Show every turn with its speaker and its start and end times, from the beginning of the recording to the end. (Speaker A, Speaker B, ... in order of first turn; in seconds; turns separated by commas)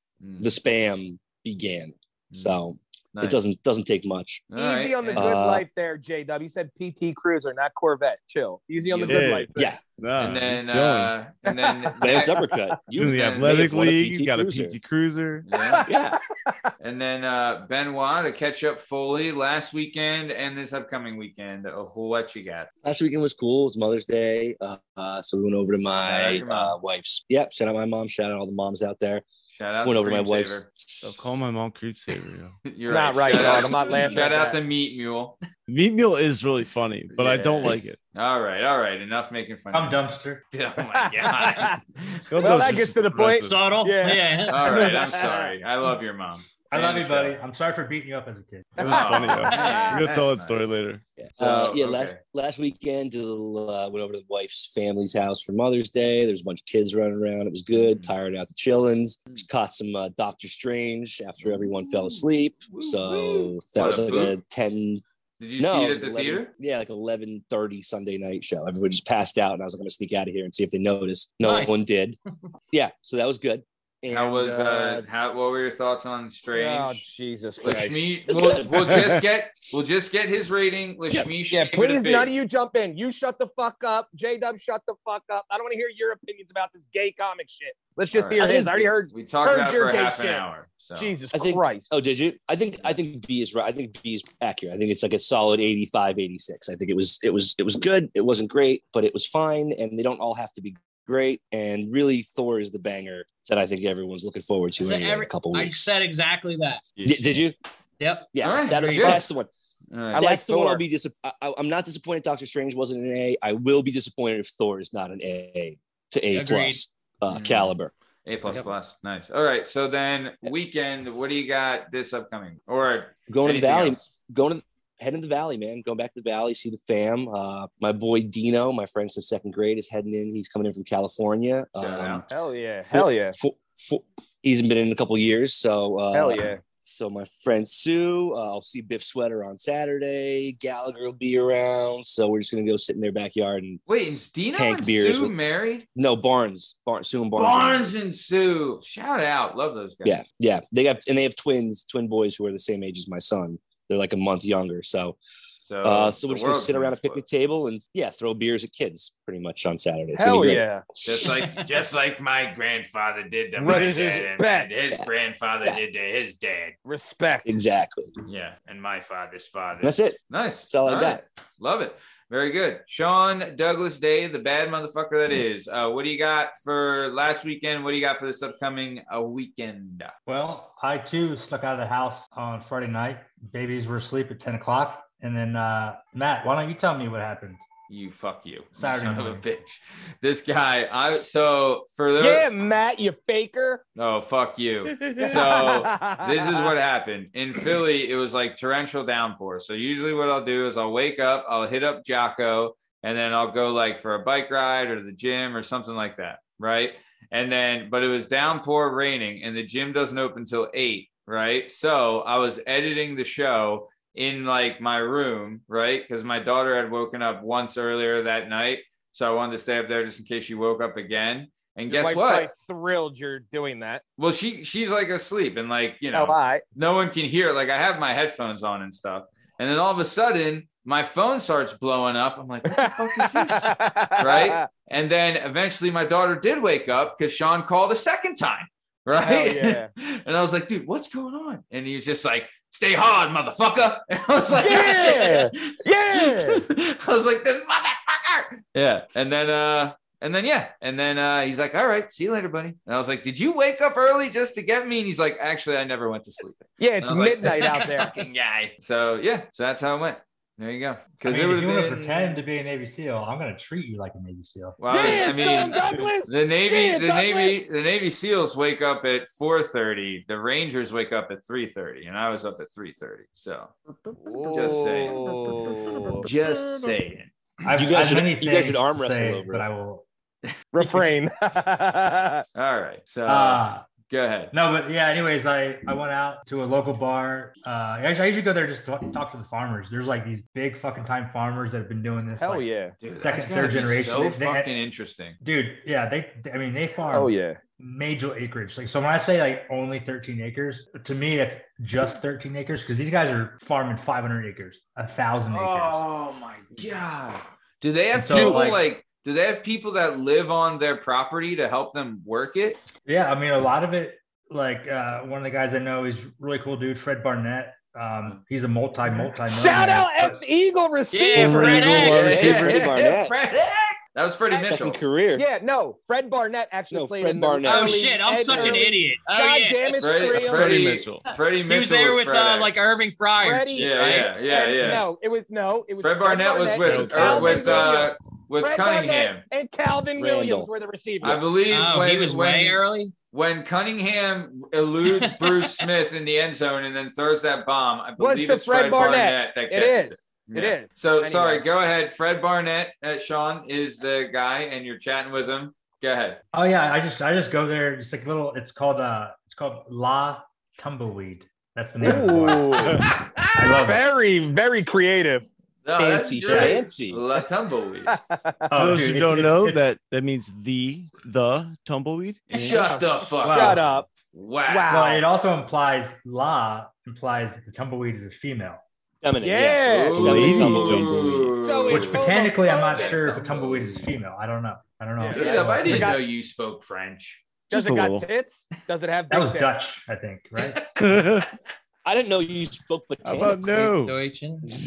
Speaker A: 0.2-0.5, Speaker B: 0.4-4.5, Speaker A: 2.3-2.6, Speaker A: 4.5-5.3, Speaker C: 4.5-9.6, Speaker B: 5.1-5.6, Speaker A: 8.8-9.2, Speaker D: 9.1-11.1, Speaker B: 9.5-9.8, Speaker A: 10.2-12.4, Speaker C: 11.4-12.6, Speaker B: 12.0-14.8, Speaker D: 12.9-15.4, Speaker A: 13.1-13.7, Speaker A: 15.4-15.8, Speaker C: 15.5-16.7, Speaker B: 15.8-16.2, Speaker A: 16.8-22.7, Speaker B: 22.8-29.2, Speaker A: 26.0-26.8, Speaker A: 29.5-30.6, Speaker B: 29.8-31.1, Speaker D: 31.0-32.6, Speaker A: 32.6-35.4, Speaker C: 32.9-34.6, Speaker D: 35.7-38.0, Speaker A: 37.1-42.6, Speaker E: 39.7-40.4, Speaker C: 40.9-41.8, Speaker D: 42.3-43.6, Speaker C: 42.4-45.5, Speaker F: 43.4-44.8, Speaker A: 44.5-47.4, Speaker E: 46.7-48.8, Speaker C: 48.8-50.0, Speaker A: 48.8-50.6, Speaker D: 48.8-51.0, Speaker B: 51.2-65.0, Speaker A: 51.4-52.2, Speaker A: 57.7-58.1, Speaker A: 61.4-64.4, Speaker A: 65.4-66.5, Speaker B: 65.6-72.2, Speaker F: 71.4-71.8, Speaker B: 72.7-75.0, Speaker A: 74.1-77.0, Speaker C: 76.5-78.0, Speaker A: 77.6-82.3, Speaker B: 78.3-79.2, Speaker C: 81.5-90.4, Speaker A: 88.1-88.5, Speaker B: 88.4-88.9, Speaker A: 89.1-91.1, Speaker C: 91.0-91.9, Speaker B: 91.3-105.9, Speaker F: 104.8-106.9, Speaker D: 107.0-107.4, Speaker B: 107.0-107.5, Speaker F: 108.0-109.2, Speaker B: 108.3-109.5, Speaker A: 108.4-109.2, Speaker A: 109.9-110.2, Speaker C: 110.1-110.8, Speaker B: 110.2-117.9, Speaker F: 116.3-116.8, Speaker A: 117.3-124.1, Speaker B: 123.3-132.2, Speaker A: 131.8-132.2, Speaker C: 132.3-133.3, Speaker B: 132.9-143.8, Speaker C: 136.1-136.6, Speaker A: 143.9-145.8, Speaker B: 144.5-145.3, Speaker B: 145.9-147.9, Speaker A: 147.3-150.2, Speaker B: 150.0-155.2, Speaker A: 155.7-157.2, Speaker B: 155.8-161.3, Speaker C: 160.1-160.8, Speaker A: 161.0-166.7, Speaker D: 163.6-164.2, Speaker C: 163.7-164.7, Speaker C: 166.8-167.5, Speaker B: 167.4-168.1, Speaker A: 168.3-180.1, Speaker B: 169.8-171.2, Speaker E: 180.3-187.6, Speaker A: 187.9-192.5, Speaker E: 188.8-189.4, Speaker C: 192.2-193.8, Speaker A: 193.9-222.5, Speaker D: 194.9-195.5, Speaker C: 195.2-196.7, Speaker C: 221.9-224.0, Speaker A: 224.2-262.4, Speaker C: 226.1-226.6, Speaker C: 232.7-234.7, Speaker C: 239.2-239.9, Speaker C: 244.5-246.6, Speaker C: 256.8-258.1, Speaker F: 257.5-258.0, Speaker E: 261.2-264.8, Speaker A: 264.8-273.7, Speaker C: 264.9-267.6, Speaker C: 274.2-276.3, Speaker A: 274.5-275.2, Speaker A: 276.2-277.3, Speaker E: 277.6-280.1, Speaker B: 277.7-279.6, Speaker A: 280.5-281.0, Speaker C: 280.7-282.4, Speaker A: 282.5-284.5, Speaker E: 283.2-283.9, Speaker E: 284.5-294.7, Speaker C: 292.4-292.9, Speaker A: 293.0-295.4, Speaker E: 295.4-306.0, Speaker C: 297.1-297.6, Speaker A: 305.5-312.8, Speaker E: 308.1-308.8, Speaker C: 308.3-308.6, Speaker E: 313.1-320.4, Speaker C: 319.4-322.7, Speaker F: 321.1-322.4, Speaker D: 321.4-322.7, Speaker B: 321.4-323.3, Speaker A: 322.1-325.0, Speaker B: 324.6-325.4, Speaker C: 325.3-330.8, Speaker B: 326.9-328.1, Speaker F: 327.6-330.1, Speaker A: 330.0-332.9, Speaker D: 330.3-331.2, Speaker F: 331.3-333.9, Speaker C: 333.4-341.4, Speaker A: 333.7-335.1, Speaker A: 336.0-339.4, Speaker D: 336.8-337.9, Speaker B: 340.1-340.7, Speaker A: 341.2-356.4, Speaker F: 341.7-343.1, Speaker F: 345.1-345.8, Speaker C: 348.2-351.6, Speaker E: 356.5-363.0, Speaker C: 362.0-363.1, Speaker A: 363.2-363.8, Speaker E: 363.5-364.0, Speaker C: 363.8-365.4, Speaker A: 365.8-368.1, Speaker B: 366.0-367.2, Speaker E: 366.5-366.8, Speaker C: 368.1-368.9, Speaker E: 368.7-369.8, Speaker D: 368.8-372.8, Speaker A: 372.5-374.9, Speaker C: 372.6-374.1, Speaker E: 373.4-373.8, Speaker C: 374.7-375.2, Speaker E: 374.9-378.8, Speaker B: 379.2-381.2, Speaker C: 379.4-380.3, Speaker A: 379.9-382.2, Speaker D: 380.1-381.5, Speaker C: 381.6-383.4, Speaker E: 381.9-386.1, Speaker A: 382.9-384.0, Speaker C: 385.2-386.2, Speaker A: 385.3-387.4, Speaker D: 387.7-388.3, Speaker C: 387.7-389.8, Speaker E: 389.3-390.8, Speaker A: 390.6-390.8, Speaker D: 391.0-391.5, Speaker B: 392.0-393.9, Speaker D: 393.2-394.1, Speaker F: 393.8-394.7